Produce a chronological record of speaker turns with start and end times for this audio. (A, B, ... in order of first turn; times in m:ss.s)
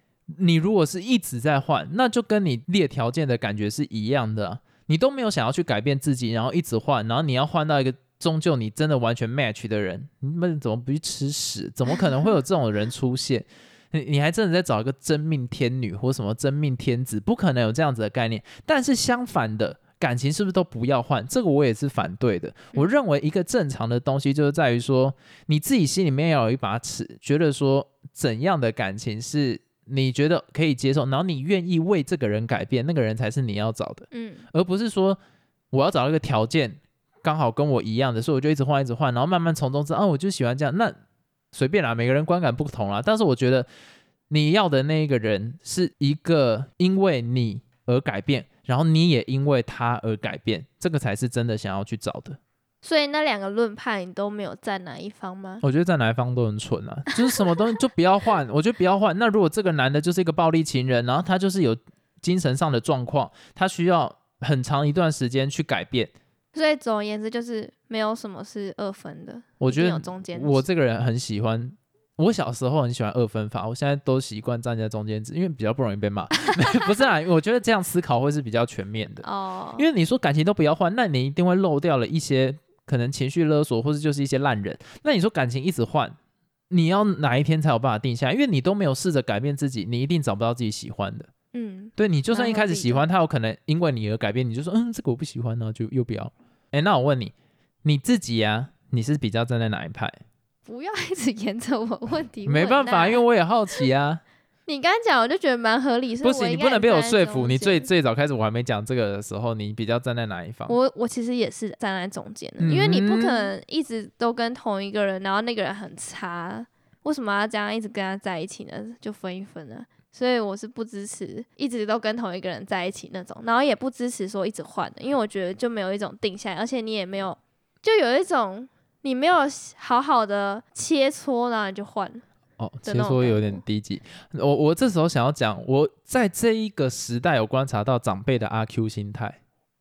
0:00.3-0:35.2 A
0:34.1-0:34.4 B
0:35.7-0:41.0 A
0:41.5-0:43.7 A
0:44.3-0:52.4 A
0:52.8-0:55.6 B
0:55.6-1:06.1 A
1:06.5-1:10.6 B
1:09.6-1:19.2 A
1:19.2-1:19.8 B
1:19.8-1:26.2 A
1:26.7-1:31.3 A
1:31.5-1:33.0 B
1:32.0-1:40.2 A
1:40.6-1:43.2 B
1:42.4-1:44.2 A
1:44.7-1:47.9 B
1:46.2-1:50.8 A
1:50.7-2:12.2 B
1:52.6-1:53.5 A
2:12.6-2:19.4 A
2:12.8-2:13.6 B